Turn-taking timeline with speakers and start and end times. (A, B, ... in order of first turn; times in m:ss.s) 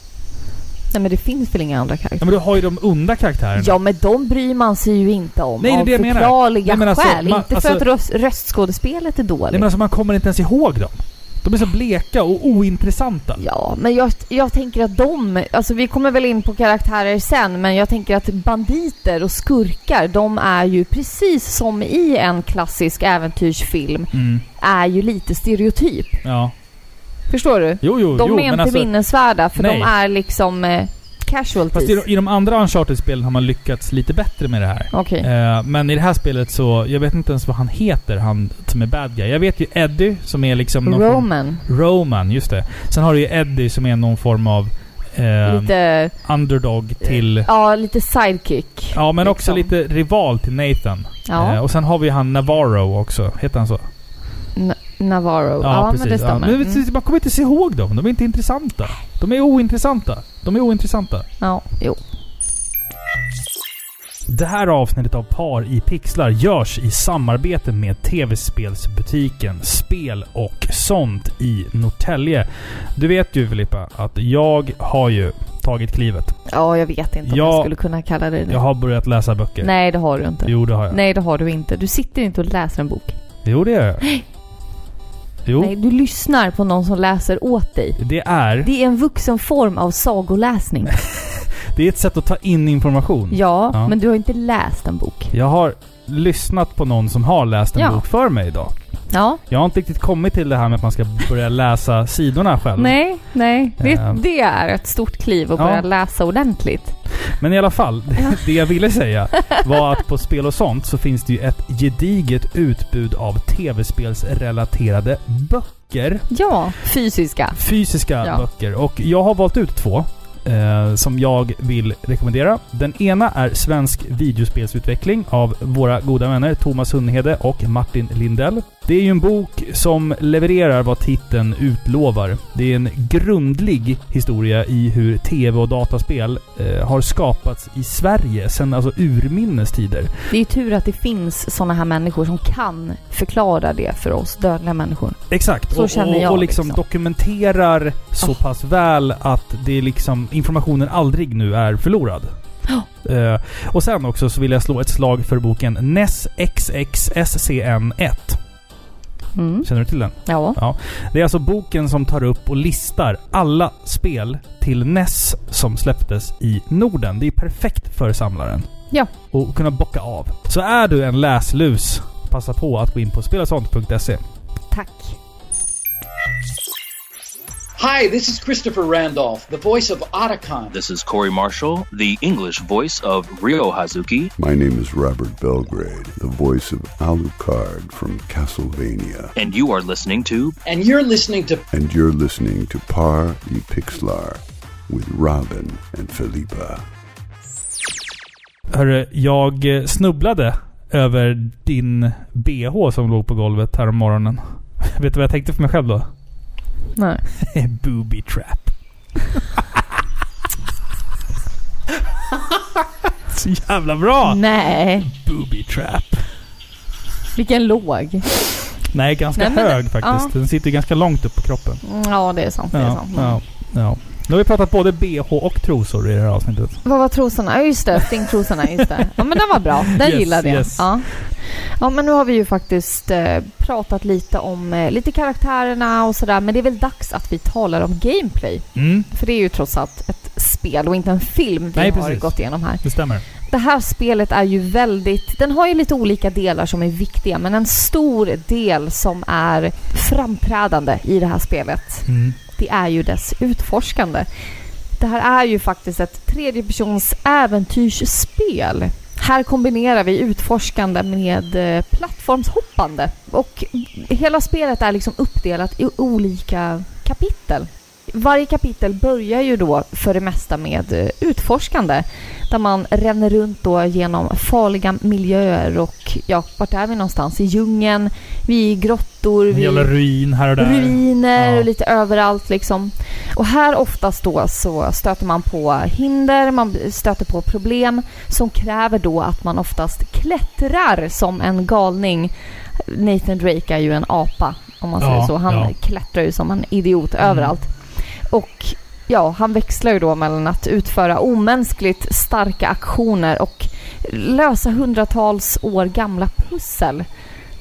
0:00.9-0:02.3 A
0:02.2-0:03.8 B
0:03.6-0:09.7 A
0:05.6-0:07.8 B
0:09.5-0:13.4 B
0:13.4-0:26.2 A
0:24.1-0:24.4 B
0:26.2-0:26.5 B
0:27.3-0:32.0 A
0:27.8-0:29.9 B
0:31.7-0:47.5 B
0:34.9-0:35.3 A
0:40.8-0:41.6 A
0:45.4-0:46.2 A
0:47.0-0:49.7 A
0:48.9-0:53.9 B
0:51.3-0:51.6 A
0:54.6-0:56.8 A
0:55.6-1:01.3 B
1:01.4-1:02.0 A
1:04.3-1:16.4 B
1:16.5-1:18.6 A
1:17.3-1:17.7 B
1:18.5-1:19.7 B
1:19.6-1:23.2 A
1:20.4-1:21.0 B
1:23.4-1:24.0 B
1:25.4-1:25.7 B
1:25.6-1:28.0 A
1:28.0-1:28.7 B
1:28.6-1:31.0 A
1:31.1-1:33.9 B
1:33.3-1:35.3 A
1:35.3-1:43.2 B
1:37.8-1:38.0 A
1:39.1-1:39.4 A
1:42.8-1:47.0 A
1:43.8-1:44.2 B
1:45.6-1:45.9 B
1:47.4-1:56.3 B
1:56.3-1:57.6 A
1:57.6-2:20.1 B
1:58.2-1:58.4 A
2:20.3-2:25.2 A
2:25.3-2:32.3 B
2:25.7-2:26.8 A
2:33.0-2:38.4 B
2:39.4-2:39.7 A
2:39.6-2:48.7 B
2:40.2-2:40.6 A
2:49.2-2:54.2 B
2:54.7-2:55.2 A
2:57.8-3:00.8 C
3:00.7-3:04.3 D
3:04.4-3:09.3 E
3:09.4-3:10.6 D
3:10.6-3:11.6 C
3:11.7-3:16.8 E
3:18.7-3:26.1 B
3:27.0-3:27.2 A
3:27.4-3:28.7 B
3:29.4-3:29.8 B
3:33.3-3:34.4 B
3:34.2-3:35.1 A
3:35.0-3:36.3 B
3:37.4-3:38.3 A
3:38.9-3:41.8 B
3:39.4-3:40.3 A
3:41.8-3:43.4 A
3:42.7-3:46.8 B
3:46.8-4:02.8 A
3:49.6-3:51.3 B
3:58.8-3:59.1 B
4:01.8-4:03.2 B
4:03.5-4:14.3 A
4:12.1-4:12.4 B
4:15.0-4:39.9 A
4:39.5-4:41.7 B
4:40.6-4:57.7 A
4:55.0-4:55.7 B
4:57.2-4:57.5 B
4:58.3-5:07.1 A